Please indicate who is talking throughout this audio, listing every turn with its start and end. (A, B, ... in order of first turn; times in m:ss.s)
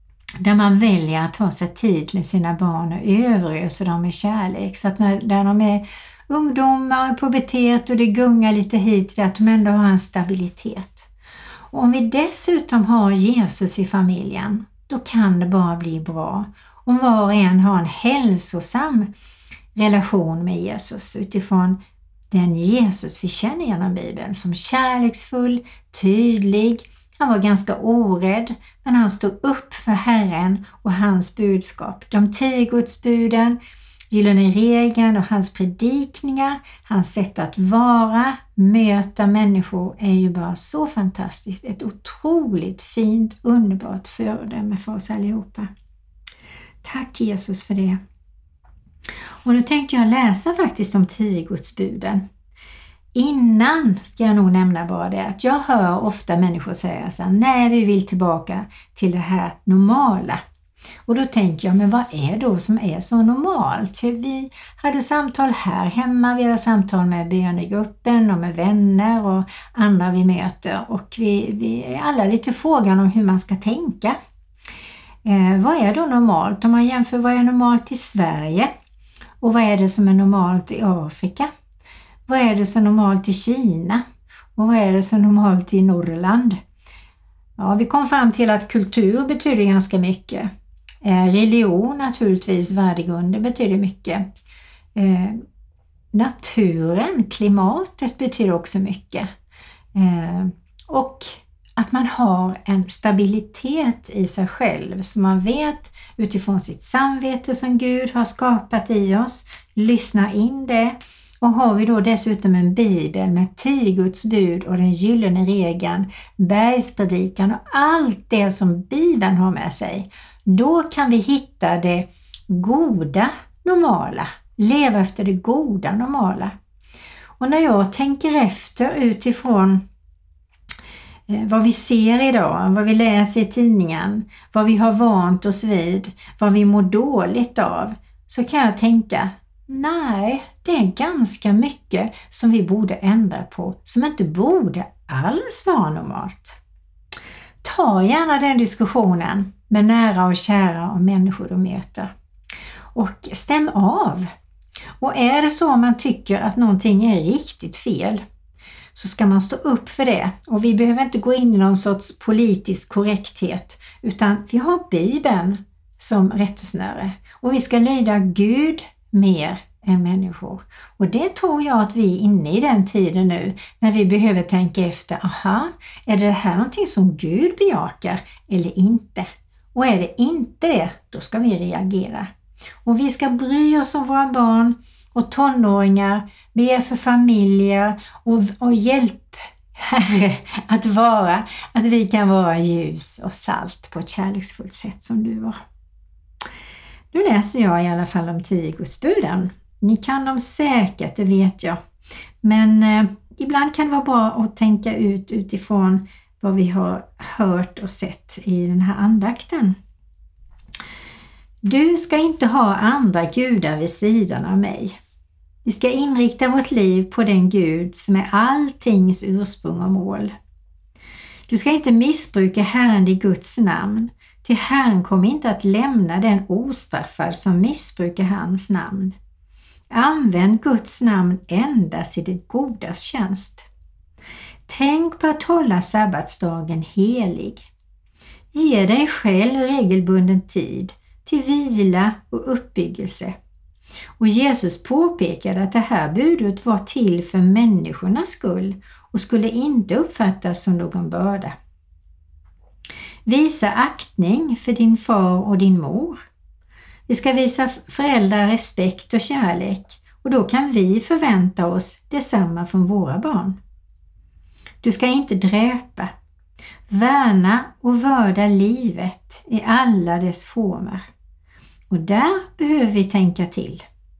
0:00.4-0:11.1 A
0:11.7-0:19.1 A
0:19.8-0:21.8 A
0:22.3-0:33.6 A
0:34.1-0:45.7 A
0:46.8-0:48.0 A
0:49.4-0:52.2 A
0:53.2-1:00.4 A
1:01.1-1:14.2 A
1:15.2-1:18.7 A
1:19.4-1:21.5 A
1:22.3-1:24.0 A
1:24.6-1:26.6 A
1:27.6-1:30.5 A
1:31.0-1:34.3 A
1:35.0-1:35.4 A
1:36.1-1:39.3 A
1:40.0-2:06.6 A
2:07.4-2:09.8 A
2:11.3-2:26.6 A
2:27.6-2:32.1 A
2:33.0-2:34.3 A
2:35.0-2:38.2 A
2:39.0-3:02.3 A
3:02.8-3:15.6 A
3:17.1-3:21.8 A
3:22.4-3:29.8 A
3:31.6-3:35.0 A
3:35.6-3:40.3 A
3:41.5-3:49.2 A
3:49.9-3:53.7 A
3:54.7-3:57.7 A
3:58.5-4:03.4 A
4:04.2-4:11.6 A
4:13.3-4:16.2 A
4:17.1-4:23.6 A
4:24.8-4:26.1 A
4:26.9-4:31.0 A
4:31.9-4:33.8 A